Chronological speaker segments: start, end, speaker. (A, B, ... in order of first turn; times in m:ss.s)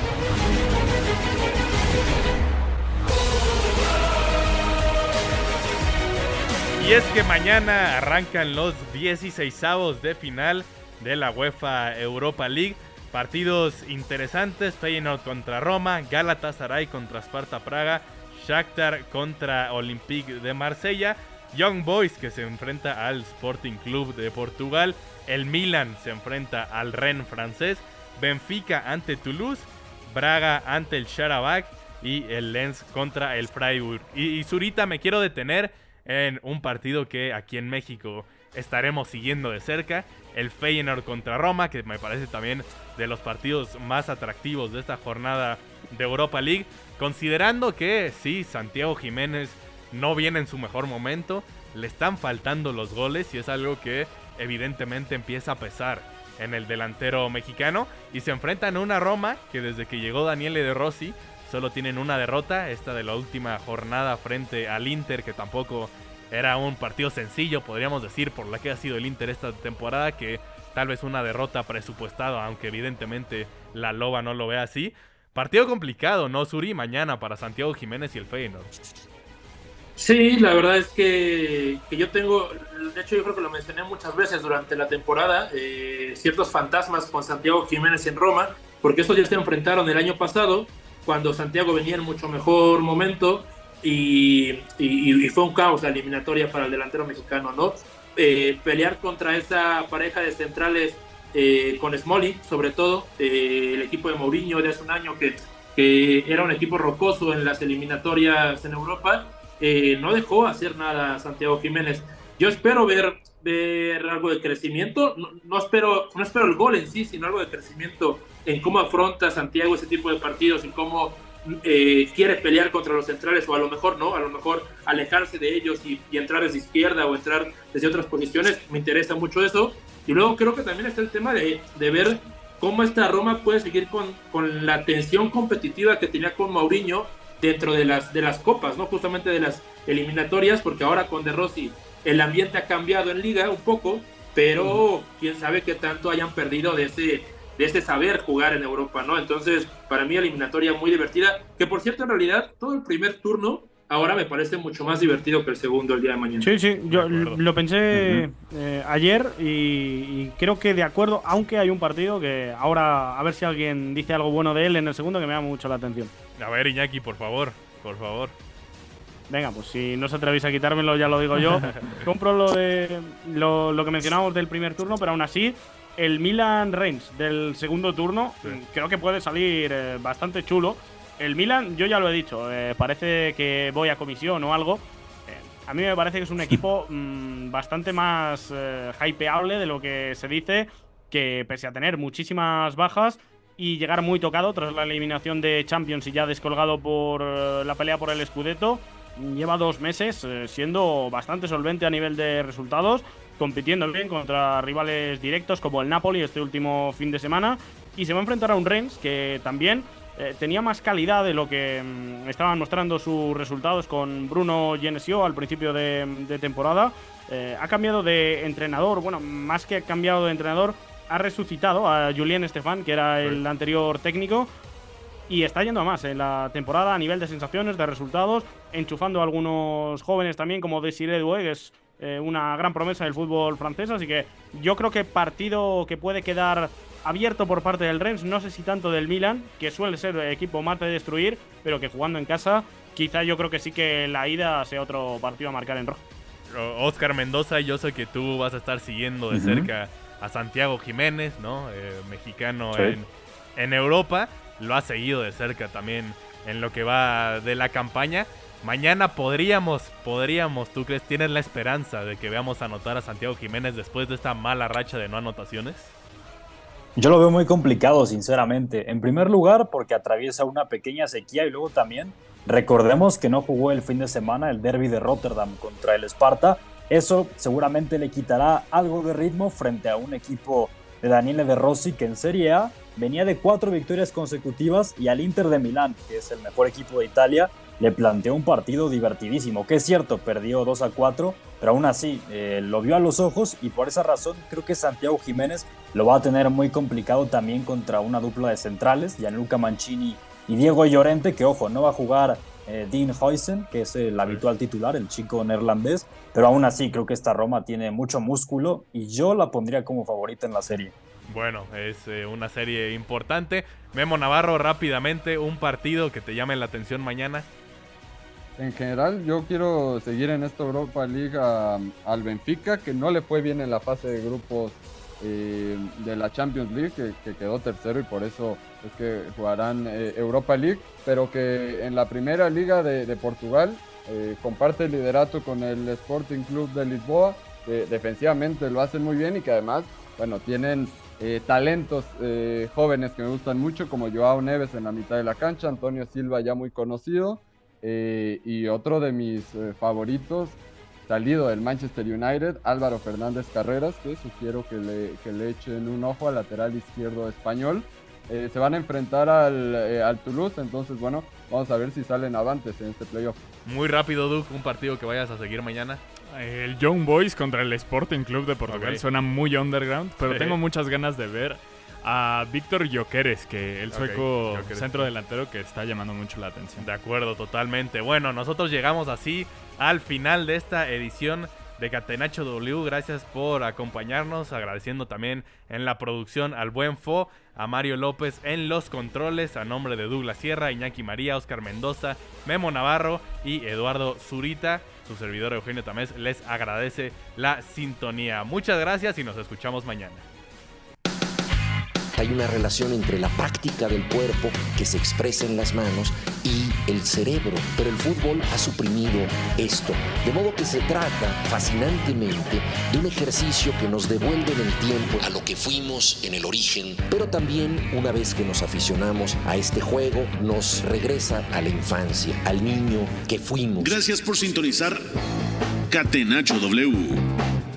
0:06.8-1:18.7 A
1:20.0-2:36.5 B
2:36.4-2:46.1 C
2:36.9-2:37.4 A
2:37.9-2:38.2 D
2:46.4-2:48.4 A
2:49.3-3:44.5 C
2:51.7-2:52.0 A
3:45.3-4:06.0 C
4:06.5-4:25.9 A
4:09.3-4:09.7 D
4:27.0-5:10.9 D
5:11.3-5:17.5 A
5:18.6-6:03.4 E
6:03.6-6:06.0 A
6:06.3-6:16.9 F
6:08.7-6:09.0 A
6:10.2-6:10.6 A
6:13.9-6:15.1 A
6:16.8-6:40.2 A
6:42.2-7:04.0 G
7:03.8-7:05.0 H
7:05.9-7:07.2 H